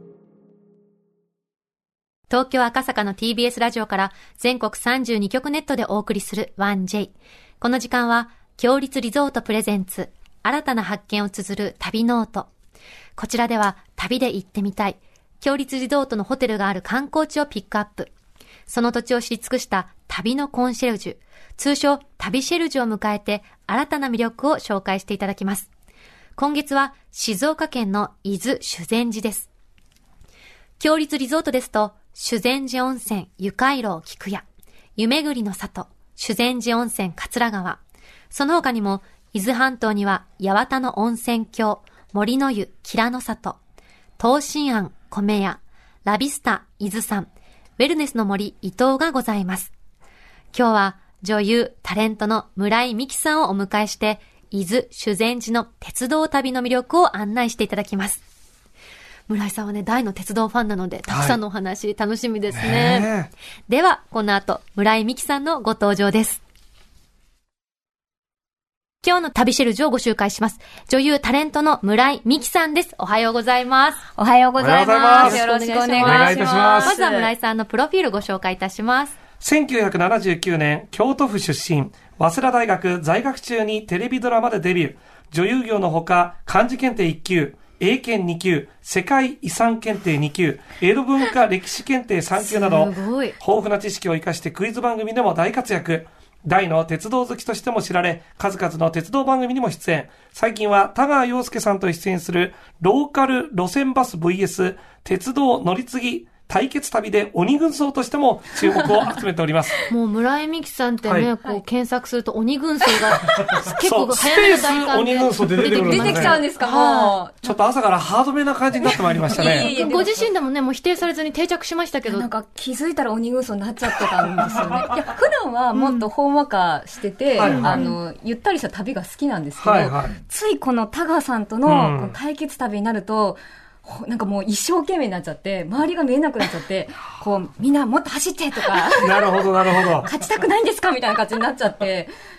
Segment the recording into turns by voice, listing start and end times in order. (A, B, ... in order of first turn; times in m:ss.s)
0:02.3-0:12.5 A
0:13.2-0:18.1 A
0:18.7-0:25.7 A
0:26.4-0:29.5 A
0:30.8-0:34.4 A
0:35.0-0:37.8 A
0:38.3-0:43.6 A
0:44.2-0:49.7 A
0:50.5-0:58.2 A
0:59.3-1:03.1 A
1:01.1-1:01.4 B
1:02.5-1:03.3 B
1:03.7-1:06.4 A
1:09.0-1:14.0 A
1:14.2-1:17.3 C
1:14.6-1:15.4 B
1:15.2-1:19.2 A
1:16.0-1:16.9 B
1:19.4-1:49.8 B
1:32.4-1:33.4 A
1:49.9-1:57.2 A
1:51.0-1:51.3 B
1:53.1-1:53.6 C
1:53.3-1:56.4 B
1:55.6-1:57.6 C
1:57.4-1:59.7 B
1:58.8-2:00.3 C
1:59.3-2:02.3 A
2:02.0-2:22.1 C
2:05.8-2:06.0 A
2:07.4-2:07.8 B
2:07.4-2:07.9 A
2:09.6-2:10.2 B
2:11.6-2:12.2 B
2:18.9-2:20.1 B